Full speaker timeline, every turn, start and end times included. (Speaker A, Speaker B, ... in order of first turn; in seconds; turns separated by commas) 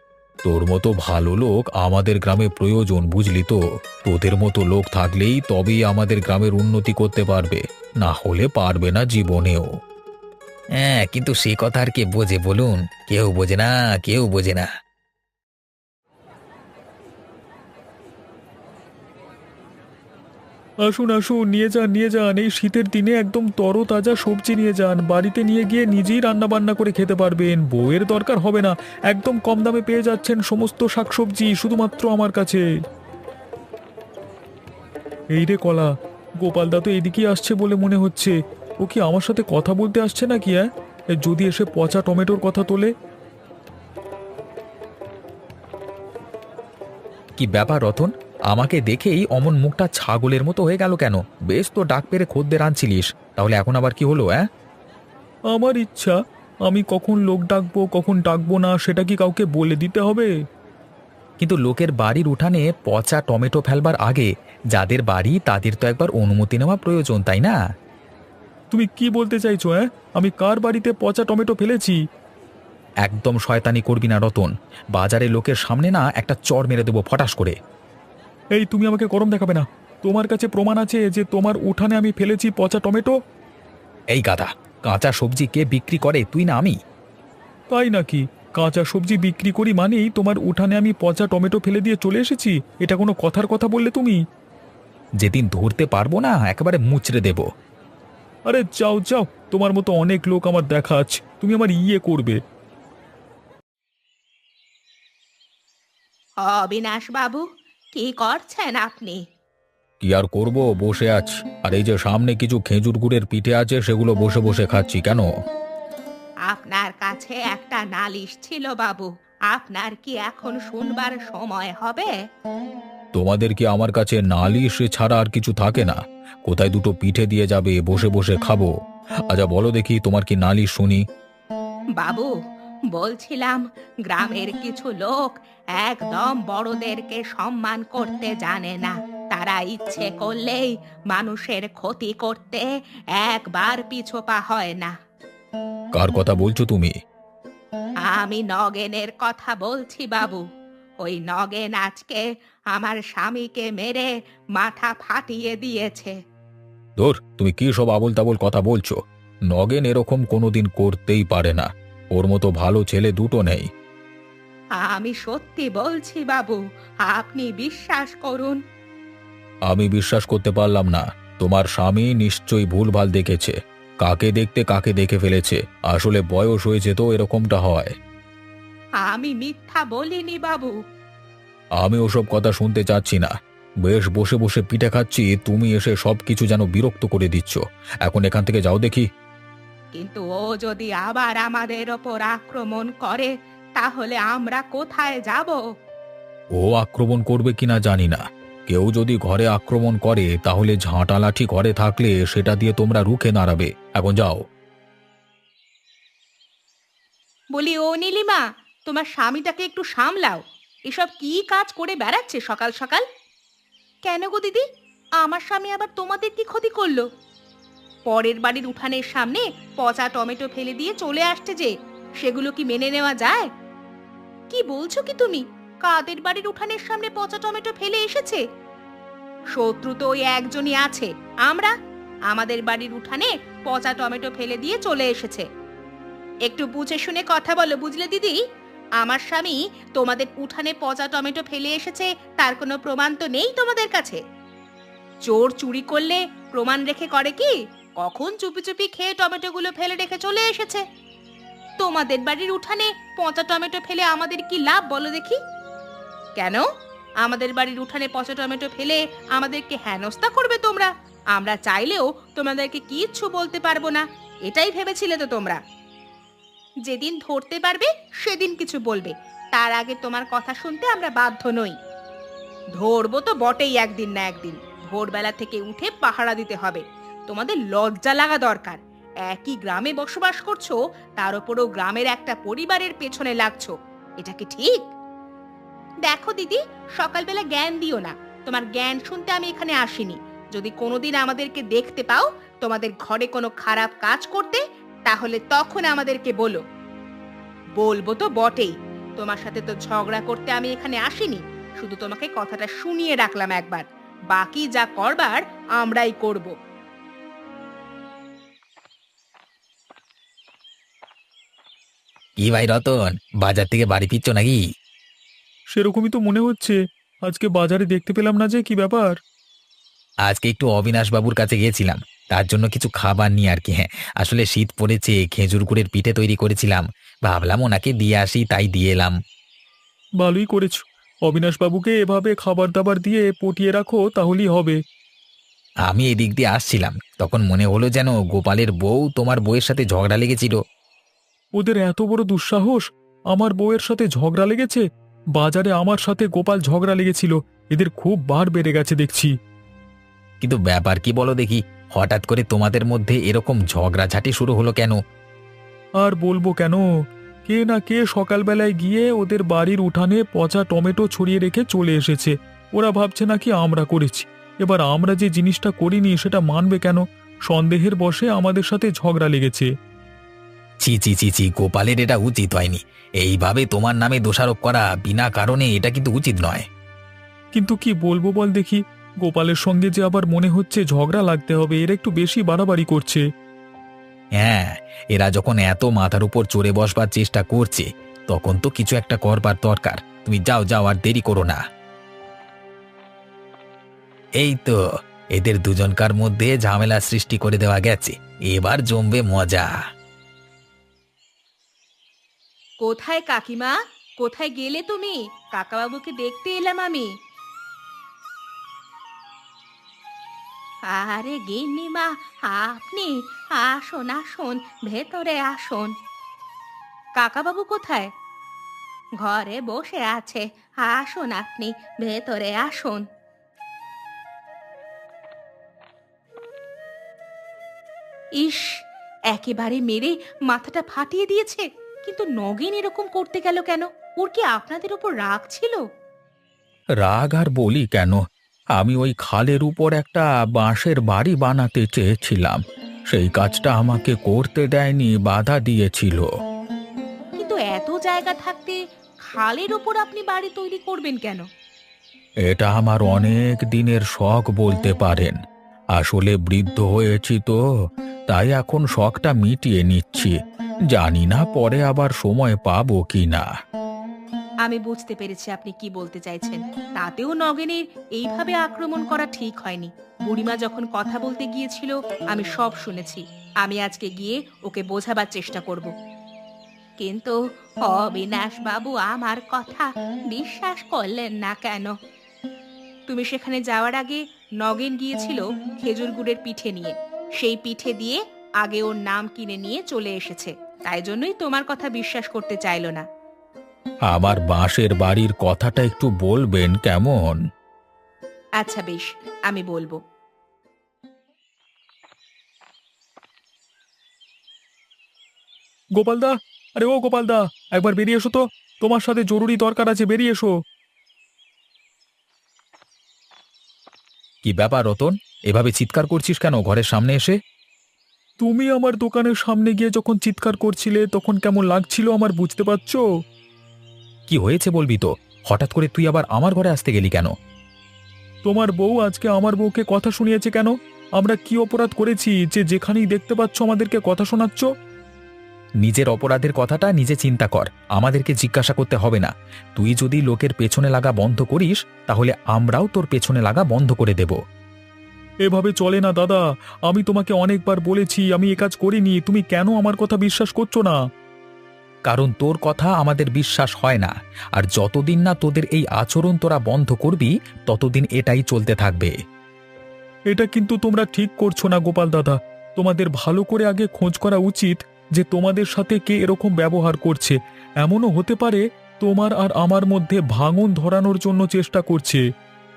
Speaker A: 0.4-9.7, Speaker A: 10.8-14.7, Speaker B: 20.9-32.6, Speaker B: 35.4-42.9, Speaker A: 47.4-54.5, Speaker B: 55.5-56.1, Speaker B: 56.6-60.3, Speaker A: 61.4-67.6, Speaker B: 68.7-72.0, Speaker A: 73.0-77.5, Speaker B: 78.6-83.1, Speaker A: 84.1-86.8, Speaker B: 87.7-94.2, Speaker A: 95.2-97.5, Speaker B: 98.5-102.4, Speaker C: 106.4-107.4, Speaker C: 107.9-109.2, Speaker A: 110.0-115.3, Speaker C: 116.5-122.1, Speaker A: 123.1-128.7, Speaker A: 129.3-131.0, Speaker C: 132.0-132.3, Speaker C: 132.9-142.6, Speaker C: 143.2-144.9, Speaker A: 145.9-146.9, Speaker C: 148.1-150.4, Speaker C: 151.0-156.1, Speaker A: 157.0-159.0, Speaker A: 159.5-163.7, Speaker C: 164.8-168.6, Speaker A: 169.7-177.9, Speaker C: 179.1-180.7, Speaker A: 181.8-183.3, Speaker A: 183.8-189.1, Speaker C: 190.0-195.6, Speaker A: 196.6-204.4, Speaker C: 207.6-213.0, Speaker C: 214.1-214.6, Speaker C: 215.2-217.0, Speaker C: 218.1-223.4, Speaker C: 224.5-228.4, Speaker C: 229.5-231.7, Speaker C: 232.3-235.4, Speaker C: 236.5-238.4, Speaker C: 239.0-244.2, Speaker C: 245.2-250.8, Speaker C: 251.8-255.4, Speaker C: 256.4-256.6, Speaker C: 257.2-265.6, Speaker C: 266.9-271.8, Speaker C: 272.8-284.9, Speaker C: 286.1-296.6, Speaker C: 297.8-306.5, Speaker A: 312.4-314.6, Speaker B: 315.7-319.2, Speaker A: 320.2-329.1, Speaker B: 330.2-334.8, Speaker A: 335.9-340.6, Speaker B: 341.6-344.8, Speaker B: 345.4-349.3, Speaker A: 350.4-354.9, Speaker B: 356.0-356.8, Speaker B: 357.5-369.7, Speaker A: 370.8-376.6, Speaker B: 377.5-383.2, Speaker A: 384.4-391.6, Speaker A: 394.4-394.7, Speaker A: 395.4-399.7, Speaker C: 402.8-407.1, Speaker C: 410.9-415.9, Speaker C: 417.2-418.1, Speaker C: 419.2-423.0, Speaker C: 428.4-428.7, Speaker C: 429.3-435.8, Speaker A: 437.0-438.2, Speaker A: 438.8-446.3, Speaker C: 447.4-448.8, Speaker C: 449.3-451.4, Speaker A: 452.5-455.4, Speaker A: 455.9-457.6, Speaker A: 458.3-460.4, Speaker A: 460.9-463.5, Speaker C: 464.6-475.9, Speaker C: 477.0-477.3, Speaker C: 477.9-481.9, Speaker C: 483.1-493.0, Speaker A: 494.1-497.4, Speaker C: 498.6-500.0, Speaker B: 506.0-510.5, Speaker A: 514.4-517.3, Speaker B: 518.4-523.0, Speaker A: 524.3-527.3, Speaker B: 528.4-534.7, Speaker A: 535.8-544.4, Speaker B: 545.4-551.0, Speaker A: 552.1-559.1, Speaker B: 560.3-572.2